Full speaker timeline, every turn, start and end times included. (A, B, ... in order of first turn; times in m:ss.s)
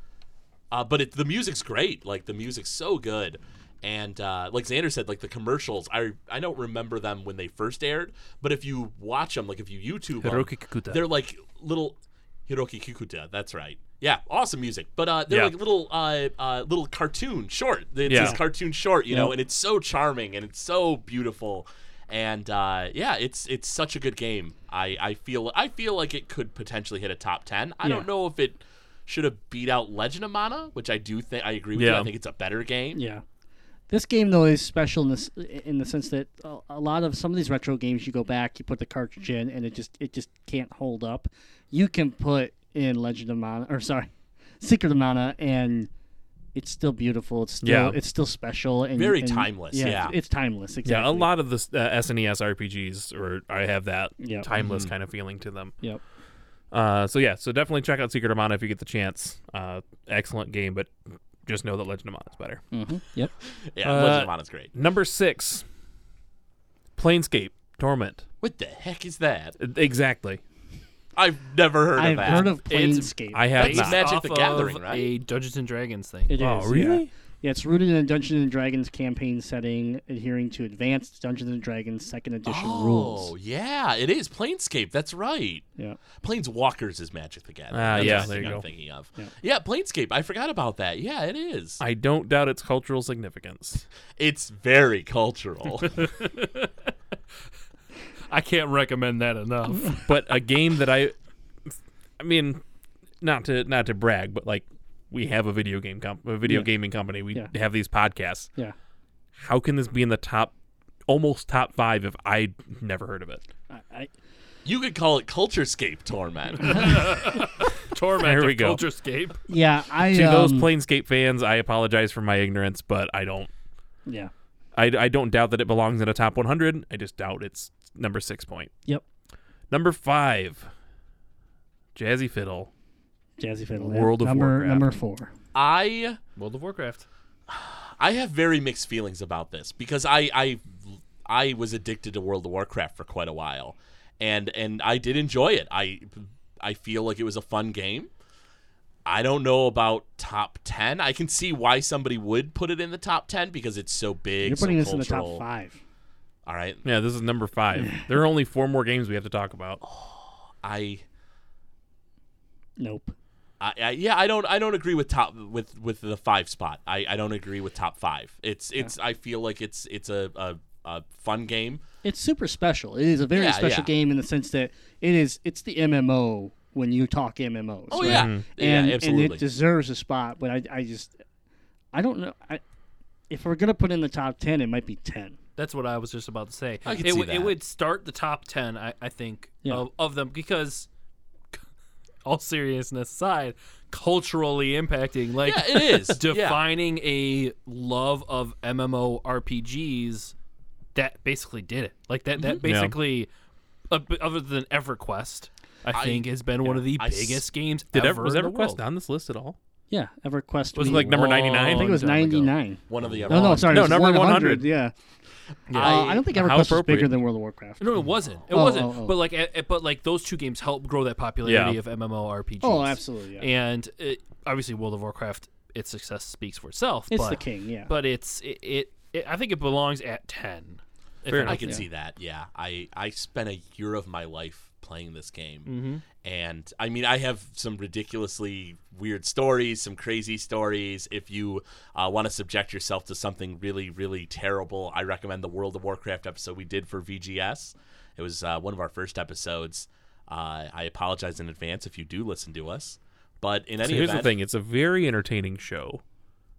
0:00.7-0:33.0 A
0:10.2-0:11.0 B
0:15.3-0:15.5 B
0:18.0-0:18.4 B
0:18.1-0:18.4 C
0:31.7-0:32.1 B
0:32.9-0:33.2 C
0:33.9-0:45.9 C
0:46.5-0:51.3 C
0:47.6-0:48.0 B
0:48.9-0:50.2 A
0:50.8-0:55.7 B
0:54.2-0:54.5 C
0:54.6-0:54.9 A
0:56.7-1:00.9 B
1:01.4-1:02.6 B
1:02.7-1:03.3 C
1:03.7-1:04.7 A
1:03.8-1:05.6 B
1:07.0-1:08.2 B
1:08.4-1:09.6 A
1:09.6-1:10.4 B
1:11.2-1:12.6 A
1:11.9-1:13.5 C
1:12.7-1:16.4 D
1:13.3-1:14.0 B
1:13.6-1:15.1 A
1:16.3-1:23.3 C
1:16.4-1:17.1 B
1:22.4-1:25.6 A
1:26.2-1:31.8 A
1:27.7-1:28.6 B
1:28.0-1:28.4 C
1:31.8-1:33.8 B
1:34.2-1:36.1 A
1:36.0-1:36.7 D
1:38.3-1:40.0 D
1:39.9-1:41.1 B
1:42.2-1:42.6 B
1:43.2-1:48.5 B
1:49.3-1:50.5 B
1:51.1-1:53.4 B
1:53.7-1:54.1 C
1:54.6-1:57.1 A
1:56.6-1:59.4 D
1:58.2-1:58.8 B
1:59.5-2:00.7 C
2:00.1-2:03.5 B
2:04.0-2:04.3 C
2:04.7-2:08.7 B
2:09.7-2:10.7 B
2:11.9-2:12.7 B
2:13.4-2:15.3 C
2:13.8-2:14.8 B
2:15.5-2:16.2 A
2:16.4-2:17.0 D
2:17.5-2:28.1 A
2:29.0-2:35.4 A
2:34.4-2:35.8 C
2:36.4-2:36.8 A
2:36.8-2:39.8 B
2:37.7-2:38.0 C
2:40.6-2:41.0 A
2:42.8-2:43.1 C
2:43.6-2:51.8 A
2:52.0-3:01.1 C
2:53.3-2:53.9 A
2:57.9-2:59.4 A
2:58.0-2:58.4 B
3:01.9-3:02.6 C
3:03.3-3:05.4 C
3:05.6-3:10.9 D
3:06.8-3:07.6 A
3:12.2-3:20.3 D
3:15.4-3:16.6 A
3:20.9-3:23.3 D
3:22.4-3:22.6 A
3:22.6-3:23.0 B
3:23.9-3:28.8 D
3:25.9-3:27.4 A
3:27.9-3:29.6 B
3:29.9-3:34.9 C
3:30.7-3:33.2 D
3:30.8-3:32.0 B
3:32.9-3:33.9 A
3:33.6-3:34.6 B
3:35.7-3:36.2 D
3:35.7-3:37.8 C
3:35.8-3:37.1 B
3:37.8-3:51.7 D
3:38.5-3:39.2 C
3:41.4-3:41.8 B
3:42.6-3:43.5 C
3:47.1-3:47.9 C
3:51.3-3:51.6 B
3:51.4-4:14.3 A
3:55.6-3:56.0 D
4:13.8-4:16.0 B